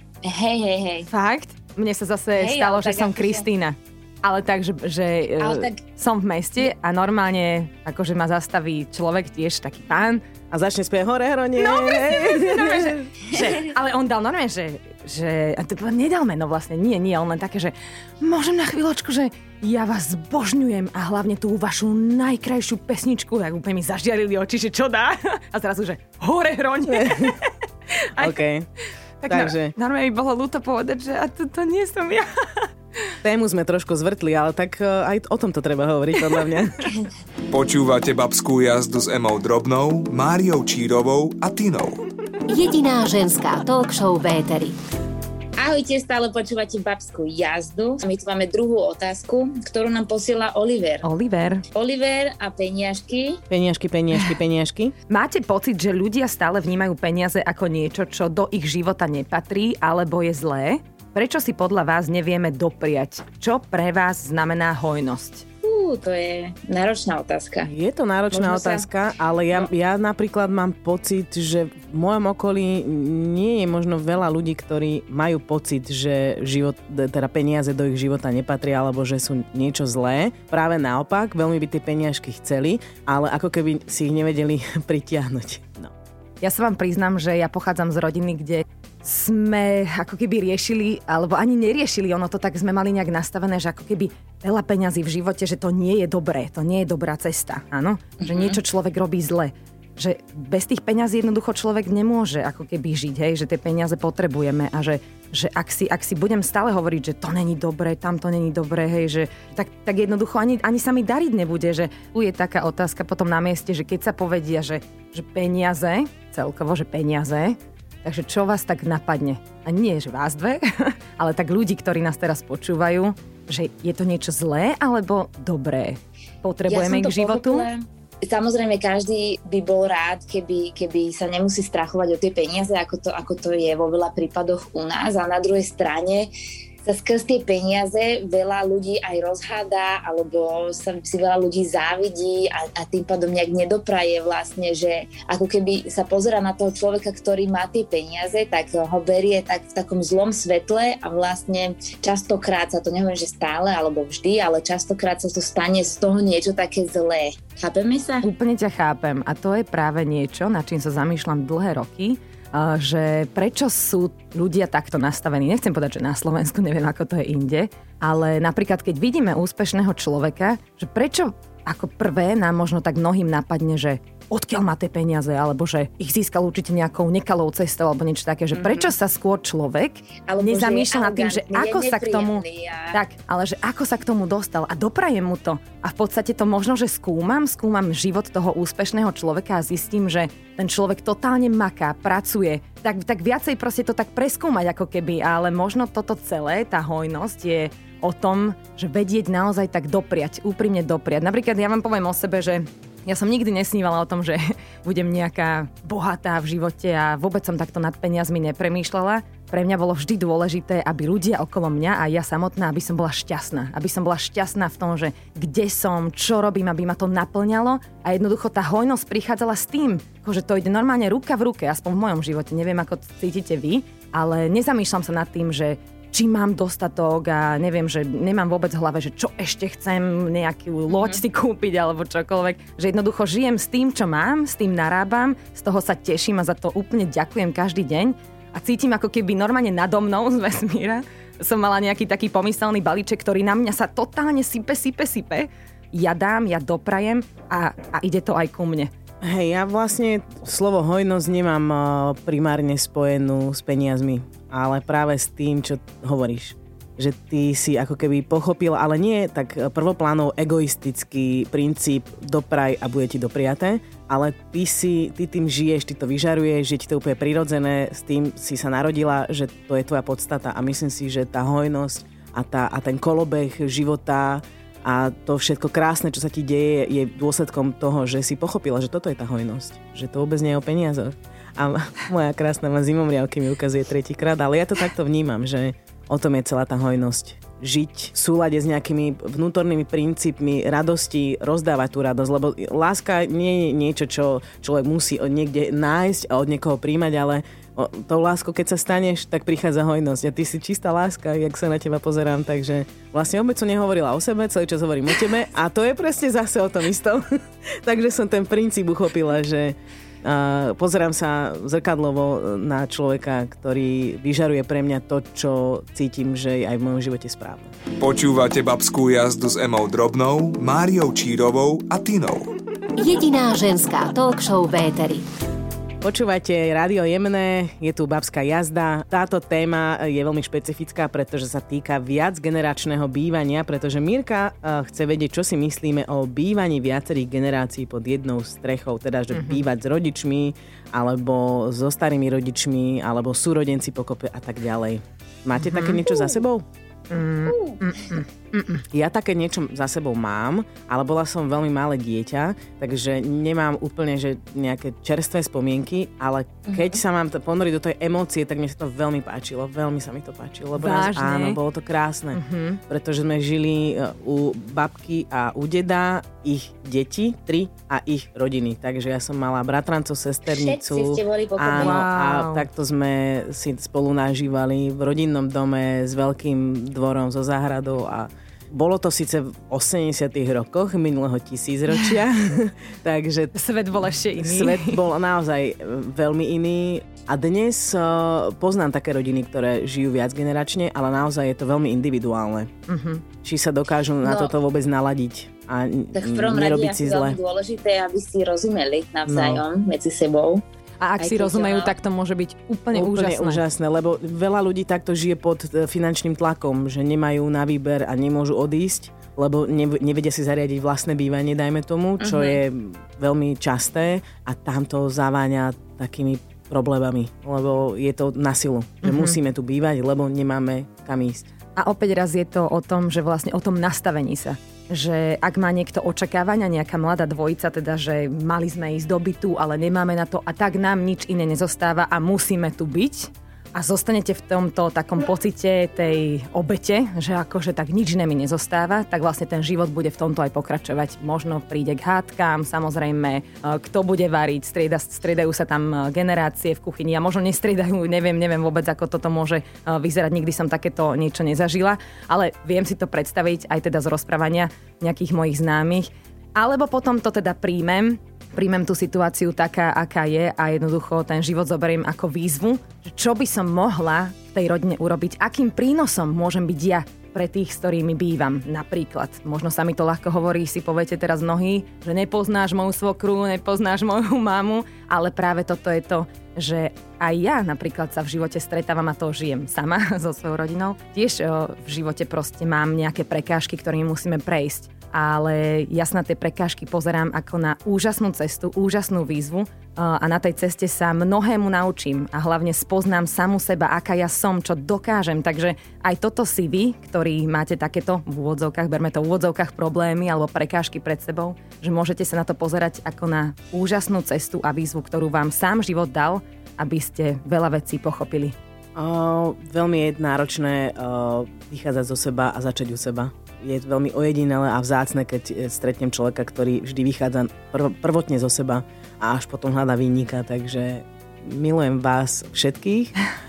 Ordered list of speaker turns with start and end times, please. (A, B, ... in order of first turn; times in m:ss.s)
0:00.2-0:01.1 A
0:01.1-0:10.2 B
0:02.4-0:03.4 A
0:05.4-0:05.8 A
0:10.5-0:13.6 C
0:11.6-0:28.4 B
0:26.9-0:27.3 C
0:28.2-0:28.7 C
0:29.2-0:32.7 B
0:29.3-0:29.7 C
0:33.2-0:36.9 C
0:37.5-0:42.0 D
0:42.5-0:44.8 E
0:45.6-0:51.0 A
0:51.0-0:51.6 B
0:51.7-0:53.4 A
0:53.5-0:54.9 C
0:55.1-1:05.4 B
1:05.6-1:07.7 A
1:07.7-1:25.9 C
1:08.3-1:08.8 A
1:26.4-2:07.7 B
1:38.2-1:38.6 A
2:06.7-2:16.3 A
2:16.8-2:38.3 A
2:38.2-4:08.9 B
2:58.5-2:58.9 A
3:00.3-3:02.9 A
3:50.9-3:51.2 A
4:09.2-5:17.7 C
5:18.0-5:22.5 D
5:23.0-5:25.2 E
5:26.0-5:46.6 C
5:39.3-5:39.6 B
5:45.6-5:46.0 B
5:47.1-5:48.8 B
5:47.5-5:47.8 A
5:48.9-6:23.5 C
5:56.7-5:57.0 A
6:00.7-6:01.6 B
6:02.3-6:02.8 B
6:10.6-6:12.0 A
6:11.8-6:12.6 B
6:23.5-6:25.0 B
6:24.4-6:32.7 C
6:32.9-6:33.2 B
6:33.4-6:37.4 C
6:34.2-6:34.5 A
6:36.1-6:40.6 A
6:39.2-6:39.6 C
6:41.0-6:43.6 B
6:41.2-6:41.9 A
6:42.9-7:01.5 C
6:52.2-6:52.6 A
6:59.0-6:59.4 B
7:01.8-8:28.5 B
8:29.0-8:43.1 C